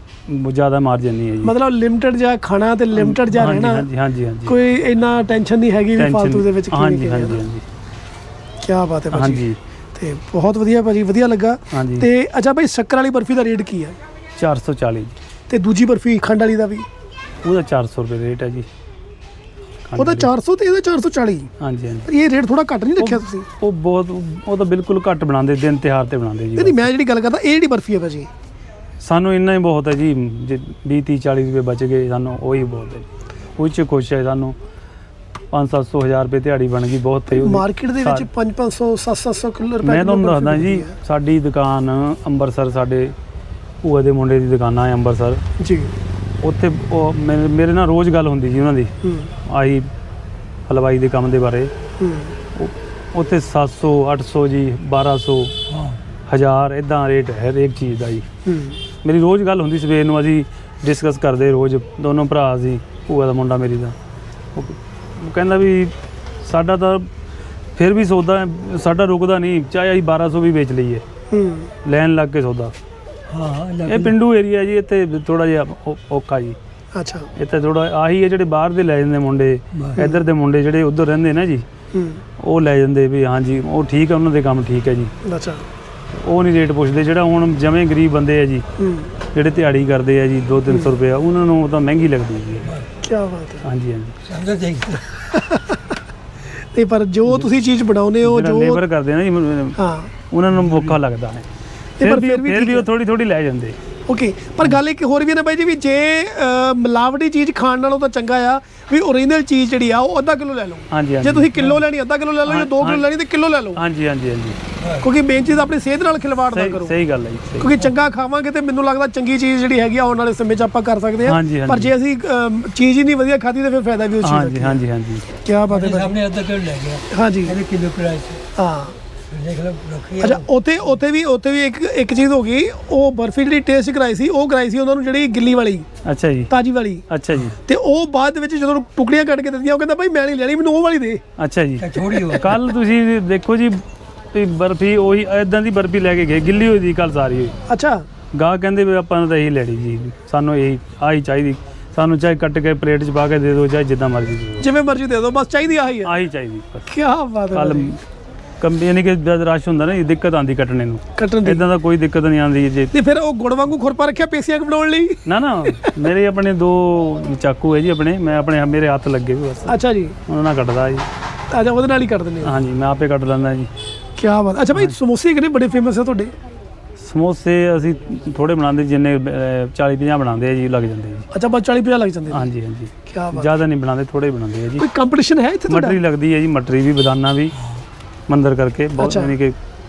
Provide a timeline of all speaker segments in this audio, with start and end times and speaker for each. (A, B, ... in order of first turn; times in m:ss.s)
0:00.3-0:01.5 A
0:01.4-0:03.9 B
0:02.9-0:04.6 A
0:04.4-0:07.4 B
0:06.0-0:07.6 A
0:08.6-0:14.0 B
0:09.1-0:09.6 A
0:11.7-0:12.1 A
0:14.4-0:15.2 A
0:15.5-0:16.9 B
0:17.4-0:18.7 A
0:19.9-0:20.3 A
0:20.0-0:21.5 B
0:21.6-0:22.1 A
0:22.1-0:23.5 B
0:23.0-0:26.9 A
0:26.6-0:28.3 B
0:29.0-0:33.1 A
0:33.6-0:34.6 A
0:35.5-0:38.3 A
0:37.3-0:41.0 B
0:39.8-0:43.1 A
0:43.8-0:45.4 A
0:45.6-0:45.9 B
0:46.4-0:48.9 A
0:49.0-0:49.3 B
0:49.4-0:49.9 A
0:50.7-0:51.7 A
0:52.0-0:52.4 B
0:52.6-0:55.6 A
0:56.3-0:58.2 A
0:58.4-0:58.8 B
0:59.0-1:03.9 A
1:04.6-1:05.9 A
1:06.4-1:07.1 A
1:07.8-1:11.0 A
1:11.3-1:11.7 B
1:11.8-1:12.7 A
1:13.4-1:14.1 C
1:13.9-1:16.6 A
1:16.9-1:17.3 B
1:17.4-1:21.6 A
1:20.0-1:20.2 B
1:21.9-1:22.2 B
1:22.4-1:25.1 A
1:25.2-1:25.6 B
1:26.1-1:28.6 A
1:28.8-1:29.1 B
1:29.3-1:32.7 A
1:33.0-1:33.7 B
1:33.6-1:34.2 A
1:34.3-1:35.0 C
1:35.1-1:35.9 B
1:36.7-1:38.8 B
1:38.2-1:39.8 A
1:39.8-1:40.1 B
1:40.3-1:41.4 A
1:40.6-1:40.9 C
1:42.0-1:42.9 B
1:42.0-1:43.8 A
1:44.1-1:53.8 B
1:50.9-1:51.5 A
1:52.4-1:53.1 A
1:53.8-1:54.6 A
1:55.0-1:56.9 B
1:56.5-1:57.8 A
1:57.6-2:04.8 B
2:01.2-2:01.9 A
2:04.2-2:05.2 A
2:05.4-2:06.2 B
2:05.7-2:08.4 C
2:07.1-2:07.6 B
2:08.6-2:09.0 B
2:09.3-2:10.4 C
2:10.2-2:15.9 B
2:16.0-2:16.5 A
2:16.5-2:17.0 B
2:17.1-2:17.6 A
2:17.6-2:21.2 B
2:21.4-2:23.8 A
2:21.8-2:22.4 C
2:24.3-2:27.6 A
2:27.7-2:28.0 B
2:28.4-2:34.7 A
2:34.6-2:36.1 B
2:36.0-2:36.9 A
2:36.9-2:37.9 B
2:37.5-2:38.0 A
2:38.6-2:42.9 A
2:41.2-2:41.6 B
2:42.9-2:45.2 B
2:45.2-2:49.8 A
2:49.7-2:50.1 B
2:50.3-2:51.0 A
2:51.5-2:52.5 B
2:52.4-2:53.7 A
2:54.2-2:56.3 B
2:57.0-3:01.3 A
3:01.3-3:02.5 B
3:02.3-3:04.9 A
3:03.1-3:03.5 B
3:04.8-3:06.0 B
3:05.7-3:07.6 A
3:08.3-3:09.6 A
3:09.0-3:09.3 B